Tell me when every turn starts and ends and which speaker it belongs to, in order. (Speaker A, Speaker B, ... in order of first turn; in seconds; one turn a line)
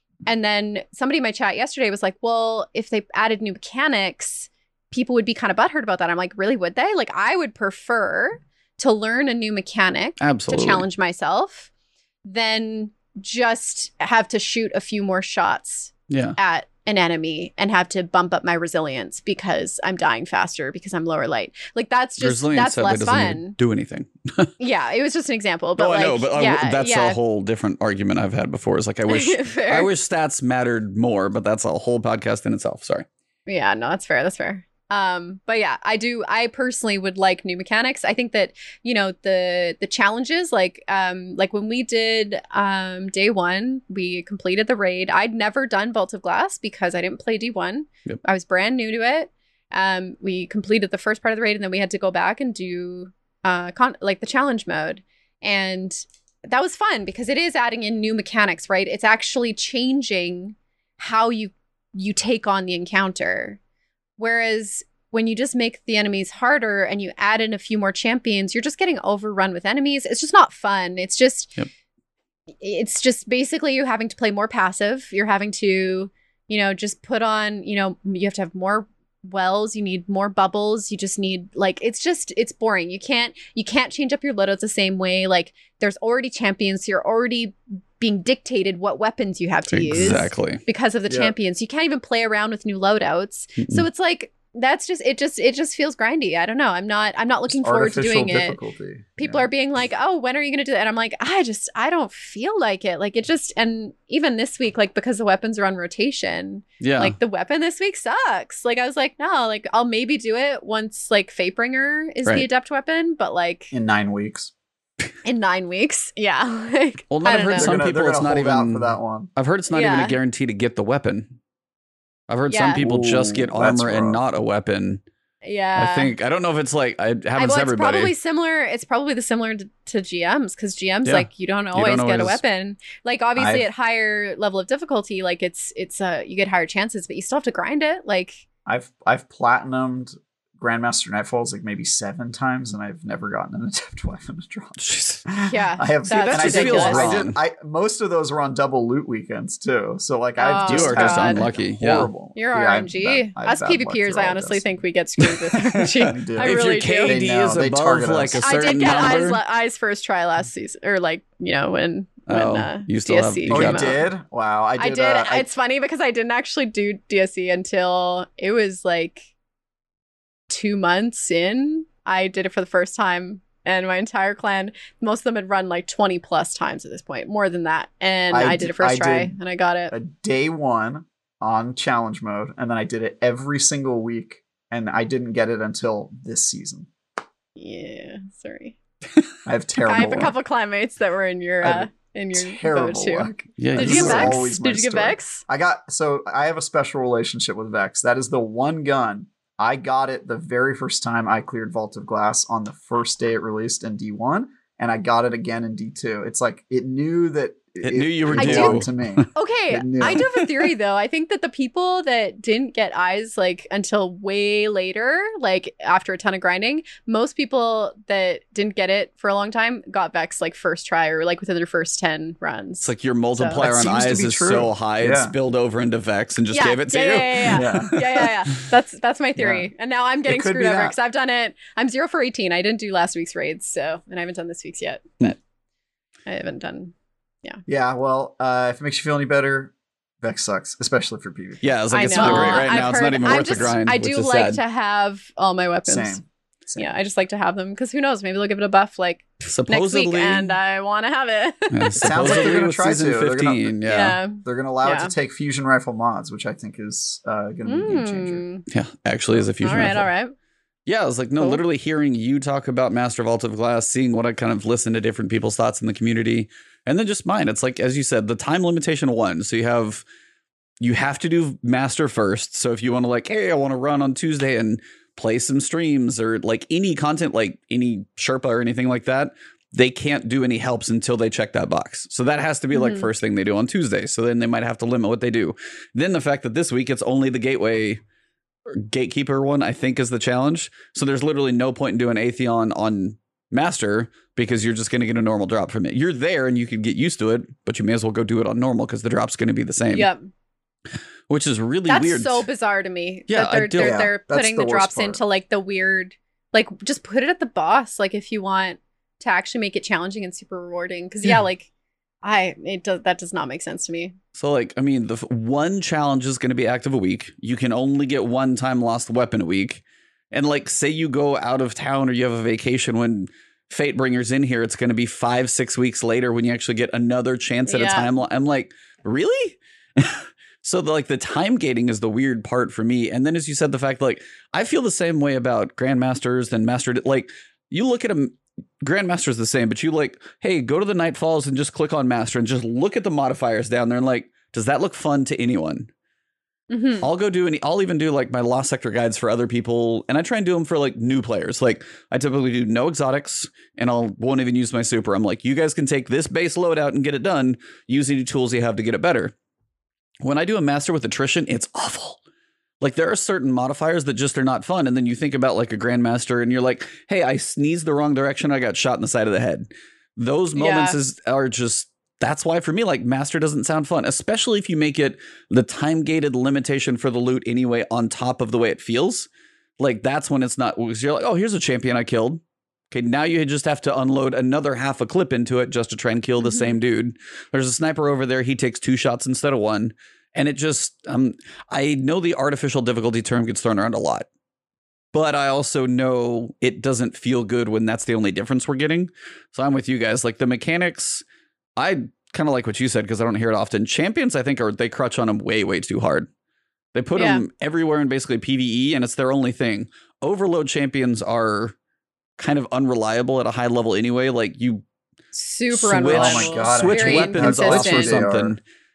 Speaker A: 0.2-11.7
Speaker B: 10.2-10.8
Speaker A: 12.2-23.6
Speaker B: 16.1-16.4
Speaker B: 22.2-24.5
Speaker A: 24.6-27.2
Speaker B: 25.8-33.1
Speaker A: 29.1-29.9
Speaker A: 33.5-63.6
Speaker A: 64.2-71.6
Speaker A: 72.6-98.6
Speaker B: 89.7-90.6
Speaker C: 91.1-91.3
Speaker B: 93.6-93.8
Speaker C: 97.5-99.5
Speaker A: 99.2-113.7
Speaker B: 106.8-107.1
Speaker C: 113.7-114.5
Speaker A: 115.2-117.7
Speaker B: 117.1-121.4
Speaker C: 117.5-119.3
Speaker A: 119.7-120.2
Speaker B: 122.3-125.0
Speaker A: 122.5-122.8
Speaker C: 122.8-124.2
Speaker A: 125.4-126.1
Speaker B: 125.8-128.1
Speaker A: 127.3-138.4
Speaker B: 131.0-132.4
Speaker C: 133.3-133.7
Speaker C: 138.7-154.7
Speaker B: 144.8-145.2
Speaker A: 145.5-147.1
Speaker B: 146.3-147.4
Speaker A: 150.4-151.5
Speaker B: 150.7-152.1
Speaker A: 152.3-157.2
Speaker B: 155.7-159.4
Speaker C: 156.0-158.5
Speaker A: 158.4-164.0
Speaker B: 162.3-163.9
Speaker C: 163.5-165.5
Speaker A: 164.8-169.2
Speaker A: 170.5-179.9
Speaker C: 178.3-179.3
Speaker C: 179.9-186.9
Speaker A: 187.6-188.8
Speaker C: 189.4-190.3
Speaker A: 189.8-195.4
Speaker C: 191.6-210.3
Speaker B: 193.6-194.5
Speaker B: 207.8-209.3
Speaker A: 208.4-223.6
Speaker B: 222.8-228.0
Speaker C: 223.6-225.3
Speaker A: 226.5-235.2
Speaker C: 227.5-228.2
Speaker C: 229.4-229.7
Speaker C: 230.2-230.9
Speaker A: 236.3-237.6
Speaker C: 237.7-241.6
Speaker B: 241.6-244.6
Speaker A: 241.9-246.2
Speaker C: 242.1-243.7
Speaker C: 245.8-246.9
Speaker A: 246.8-252.5
Speaker B: 249.5-250.6
Speaker B: 251.7-254.2
Speaker C: 251.9-253.7
Speaker A: 253.8-255.1
Speaker C: 254.4-258.4
Speaker A: 257.6-258.6
Speaker B: 258.7-260.1
Speaker A: 259.6-260.3
Speaker B: 260.9-270.0
Speaker B: 270.8-288.0
Speaker A: 282.7-283.1
Speaker B: 288.7-300.1
Speaker A: 299.9-300.3
Speaker B: 301.3-302.4
Speaker A: 301.9-311.7
Speaker B: 303.3-304.1
Speaker C: 303.8-305.2
Speaker A: 312.2-314.1
Speaker B: 314.4-345.9
Speaker A: 327.7-328.1
Speaker A: 346.7-347.1
Speaker B: 347.0-359.3
Speaker B: 360.2-362.2
Speaker B: 362.8-379.3
Speaker A: 370.5-370.9
Speaker B: 379.8-394.3
Speaker A: 386.4-386.8
Speaker B: 395.1-401.2
Speaker B: 401.8-406.3
Speaker B: 406.9-411.7
Speaker A: 407.2-407.4
Speaker B: 412.4-414.8
Speaker A: 415.3-418.3
Speaker B: 415.7-418.6
Speaker C: 416.1-418.5